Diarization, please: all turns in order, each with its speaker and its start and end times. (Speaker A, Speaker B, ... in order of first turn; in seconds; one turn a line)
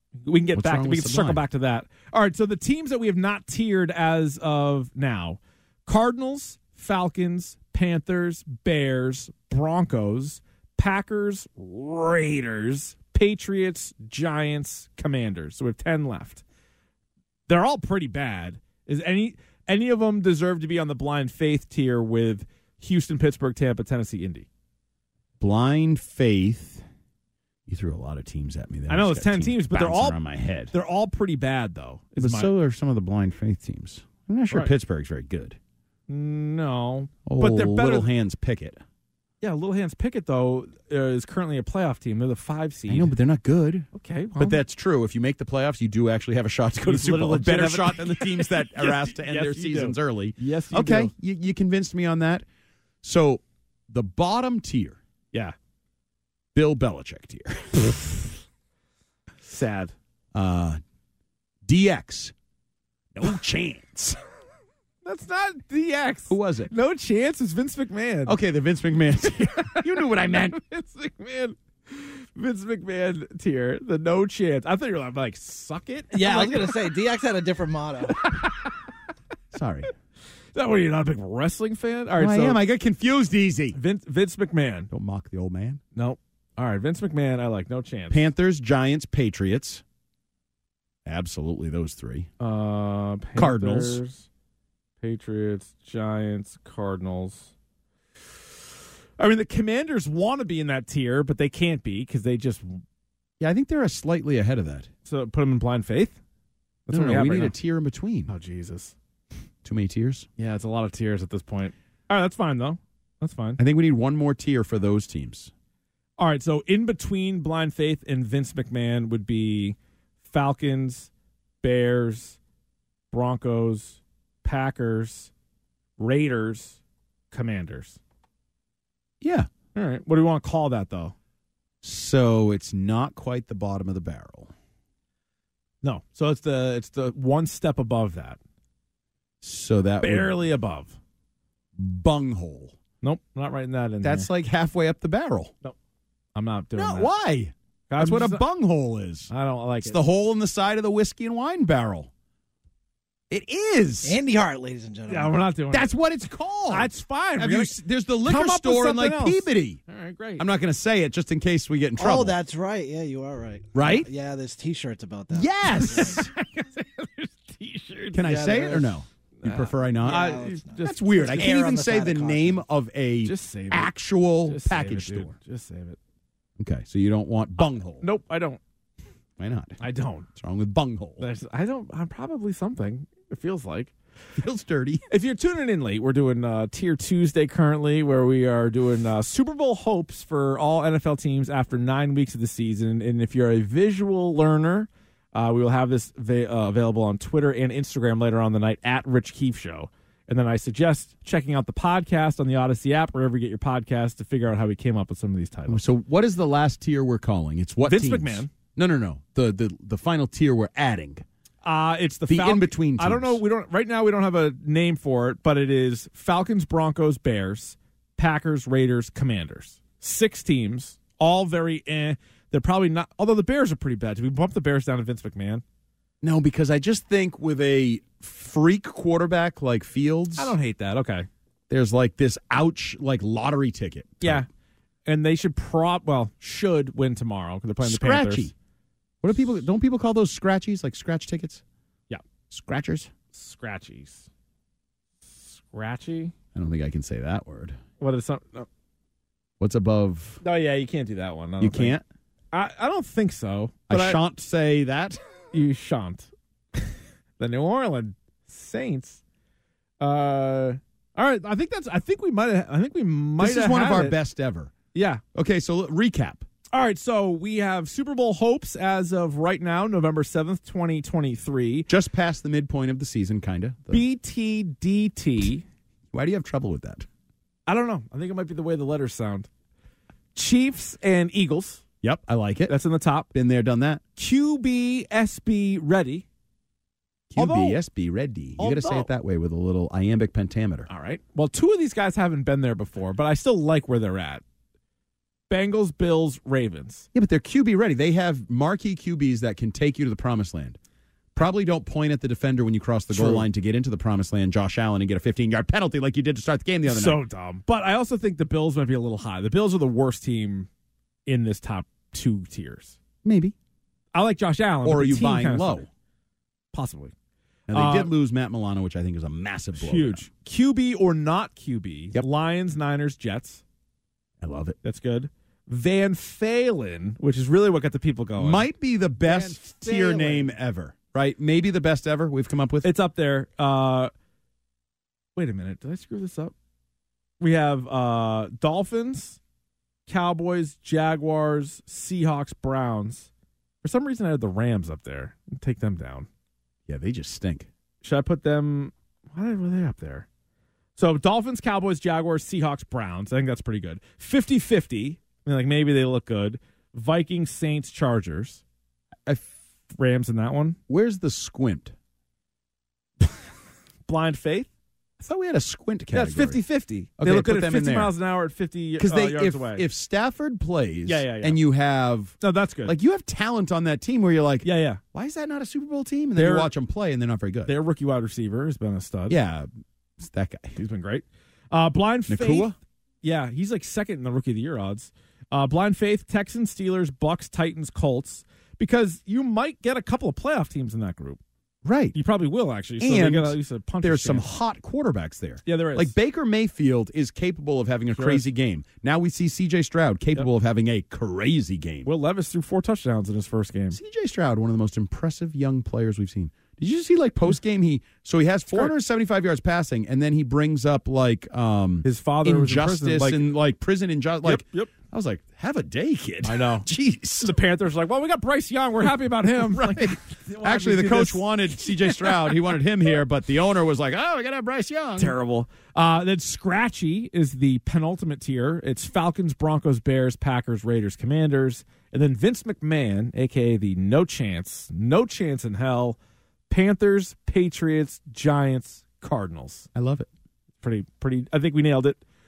Speaker A: 0.2-16.4
Speaker B: 0.5-1.4
Speaker A: 17.5-24.5
Speaker B: 25.4-26.8
Speaker B: 27.7-30.7
Speaker A: 28.9-30.2
Speaker A: 30.7-32.5
Speaker B: 32.2-35.6
Speaker A: 36.1-38.1
Speaker B: 37.3-38.8
Speaker A: 39.4-43.1
Speaker B: 42.9-43.9
Speaker A: 43.9-44.6
Speaker B: 44.4-52.5
Speaker A: 46.8-51.1
Speaker B: 53.0-55.0
Speaker B: 56.5-58.0
Speaker A: 59.5-59.9
Speaker B: 60.3-60.8
Speaker B: 61.7-62.3
Speaker B: 63.1-64.2
Speaker A: 65.0-68.4
Speaker B: 66.3-66.7
Speaker B: 68.3-70.6
Speaker A: 69.2-77.0
Speaker C: 76.1-78.2
Speaker A: 78.1-78.9
Speaker B: 79.5-79.9
Speaker A: 80.5-82.6
Speaker B: 82.2-83.8
Speaker A: 83.8-84.9
Speaker B: 84.9-85.8
Speaker A: 86.0-88.3
Speaker B: 88.1-89.8
Speaker B: 91.1-92.3
Speaker A: 92.4-94.3
Speaker B: 93.4-94.0
Speaker A: 95.0-97.5
Speaker A: 99.2-102.8
Speaker B: 103.4-104.9
Speaker A: 105.1-106.2
Speaker A: 106.9-107.5
Speaker B: 106.9-108.3
Speaker A: 108.3-109.0
Speaker B: 109.6-110.3
Speaker A: 110.4-113.6
Speaker B: 113.6-115.5
Speaker A: 116.2-121.1
Speaker A: 121.6-122.4
Speaker A: 123.1-125.3
Speaker A: 126.0-126.8
Speaker A: 127.3-128.0
Speaker B: 129.2-129.5
Speaker A: 129.8-131.2
Speaker B: 131.8-134.5
Speaker A: 135.8-138.4
Speaker B: 139.4-140.4
Speaker A: 140.0-141.0
Speaker B: 141.8-142.8
Speaker A: 143.0-144.3
Speaker B: 144.0-145.5
Speaker A: 146.3-147.1
Speaker B: 146.8-149.3
Speaker A: 147.9-148.4
Speaker A: 149.3-150.0
Speaker B: 149.8-152.1
Speaker B: 153.3-154.2
Speaker C: 154.0-155.4
Speaker A: 155.1-155.9
Speaker B: 155.7-159.8
Speaker A: 156.7-160.5
Speaker B: 160.4-162.4
Speaker C: 162.0-166.2
Speaker B: 163.7-164.1
Speaker B: 165.3-166.3
Speaker A: 165.7-168.3
Speaker B: 168.1-175.3
Speaker C: 168.2-169.0
Speaker A: 169.4-171.7
Speaker C: 170.0-172.6
Speaker A: 173.2-173.9
Speaker A: 174.4-176.0
Speaker B: 176.6-178.1
Speaker A: 177.6-178.6
Speaker B: 179.4-179.8
Speaker A: 179.8-180.3
Speaker B: 180.3-181.3
Speaker A: 181.2-183.9
Speaker B: 184.4-185.1
Speaker A: 185.1-205.8
Speaker B: 205.7-211.2
Speaker A: 207.8-208.5
Speaker A: 211.6-225.6
Speaker B: 212.3-213.4
Speaker B: 226.2-230.6
Speaker A: 230.4-231.3
Speaker B: 231.7-234.5
Speaker A: 234.2-234.5
Speaker A: 235.1-238.5
Speaker B: 237.8-238.5
Speaker B: 239.2-241.6
Speaker B: 242.5-243.1
Speaker A: 243.3-244.3
Speaker A: 245.4-246.3
Speaker B: 246.6-247.8
Speaker A: 248.0-248.7
Speaker B: 249.6-250.4
Speaker A: 250.4-252.0
Speaker B: 251.6-252.0
Speaker A: 252.5-254.2
Speaker B: 253.9-255.2
Speaker A: 255.5-259.2
Speaker A: 260.0-264.2
Speaker B: 263.4-264.7
Speaker A: 264.9-265.2
Speaker B: 265.4-266.4
Speaker A: 266.7-271.9
Speaker B: 271.9-274.1
Speaker A: 273.9-275.6
Speaker B: 276.1-277.1
Speaker A: 277.7-279.5
Speaker A: 280.4-281.8
Speaker B: 282.0-282.7
Speaker A: 282.7-283.3
Speaker B: 283.3-284.0
Speaker A: 284.2-286.3
Speaker B: 287.3-290.9
Speaker A: 287.4-287.8
Speaker A: 288.6-289.1
Speaker A: 290.9-294.4
Speaker A: 295.5-297.1
Speaker B: 297.1-300.8
Speaker B: 301.4-307.2
Speaker A: 303.1-303.5
Speaker A: 306.9-310.7
Speaker A: 311.3-313.0
Speaker B: 313.2-313.6
Speaker A: 314.1-315.9
Speaker B: 314.8-315.9
Speaker A: 316.7-317.1
Speaker B: 317.7-320.2
Speaker A: 317.7-318.1
Speaker A: 319.8-323.6
Speaker B: 324.4-324.8
Speaker A: 324.8-328.7
Speaker B: 328.4-332.9
Speaker A: 329.2-330.5
Speaker A: 332.8-334.1
Speaker A: 335.4-336.5
Speaker A: 337.4-339.4
Speaker A: 340.1-343.3
Speaker A: 343.8-346.3
Speaker B: 346.9-347.7
Speaker A: 348.0-350.3
Speaker A: 351.0-358.6
Speaker A: 359.9-360.8
Speaker B: 360.9-361.9
Speaker A: 364.1-364.7
Speaker B: 365.2-366.6
Speaker A: 366.1-369.9
Speaker B: 367.2-368.1
Speaker B: 369.0-377.7
Speaker A: 371.1-371.6
Speaker A: 372.4-372.9
Speaker A: 374.6-375.0
Speaker A: 376.4-376.7
Speaker A: 377.7-379.4
Speaker B: 379.3-379.7
Speaker B: 380.2-380.8
Speaker A: 380.8-391.4
Speaker B: 382.3-382.8
Speaker B: 391.8-392.2
Speaker A: 392.1-394.5
Speaker B: 393.0-402.1
Speaker A: 395.6-396.1
Speaker A: 398.1-398.4
Speaker A: 402.1-404.0
Speaker B: 403.9-417.6
Speaker A: 408.7-408.9
Speaker A: 412.0-413.5
Speaker A: 414.4-414.9
Speaker A: 416.4-416.9
Speaker A: 417.4-422.6
Speaker B: 419.6-425.4
Speaker A: 425.2-436.2
Speaker A: 436.7-439.9
Speaker B: 439.9-440.3
Speaker A: 440.8-442.2